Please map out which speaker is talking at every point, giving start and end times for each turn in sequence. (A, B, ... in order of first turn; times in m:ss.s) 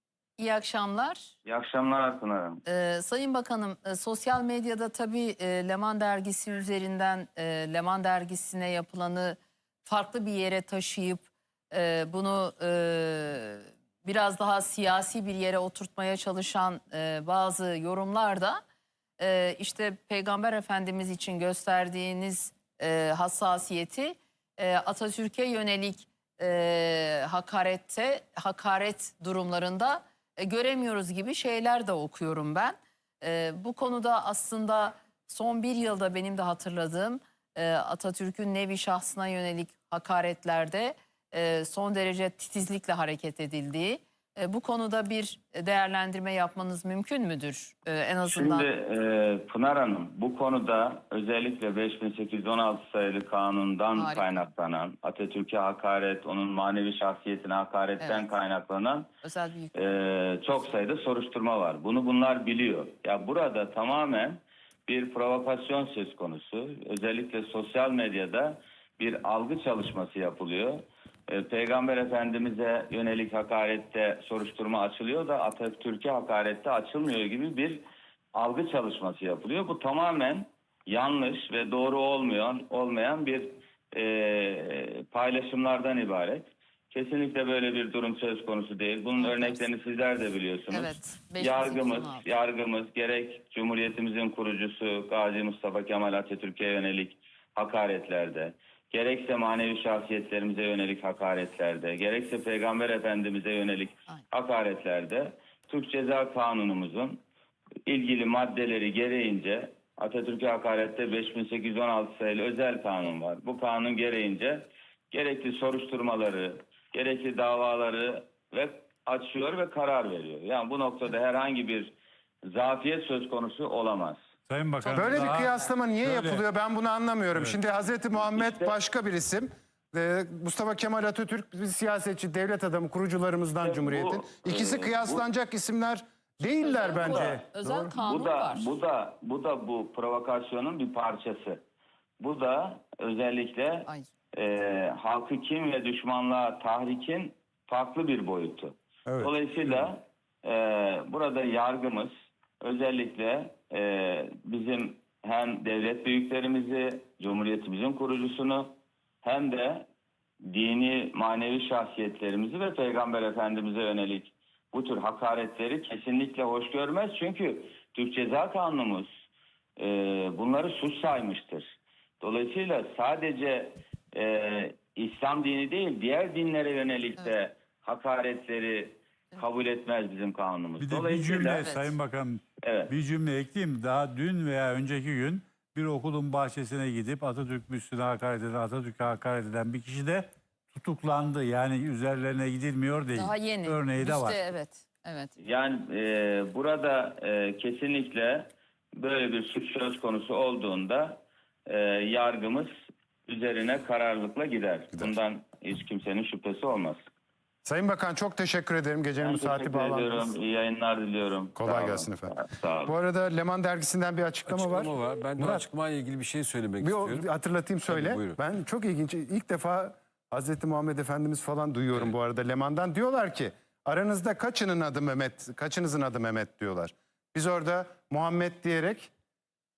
0:00.4-0:01.3 A
0:01.4-0:02.6 B
0:02.6-0:18.6 A
0:19.2-0:48.7 A
0:48.2-0:59.1 B
0:54.0-0:54.4 A
0:58.0-0:58.3 A
0:59.2-1:00.0 A
0:59.8-1:17.8 B
1:18.3-1:47.2 B
1:29.2-1:29.6 A
1:30.7-1:32.2 A
1:47.8-2:01.9 B
2:02.4-2:04.2 B
2:04.5-2:06.4 C
2:04.8-2:17.9 D
2:07.3-2:07.6 C
2:08.1-2:08.8 B
2:13.6-2:15.3 B
2:16.6-2:18.7 A
2:16.9-2:17.4 B
2:18.0-2:21.6 B
2:22.2-2:38.7 B
2:29.0-2:29.7 D
2:39.2-2:39.8 B
2:40.5-2:49.1 B
2:49.8-3:01.7 B
3:00.8-3:14.4 C
3:01.5-3:02.0 A
3:02.6-3:02.9 B
3:13.2-3:15.3 A
3:15.4-3:22.7 B
3:23.3-3:27.0 B
3:27.6-3:30.3 D
3:29.2-3:32.9 B
3:31.6-3:35.7 D
3:34.4-3:37.3 E
3:36.8-3:49.1 D
3:37.8-3:38.4 E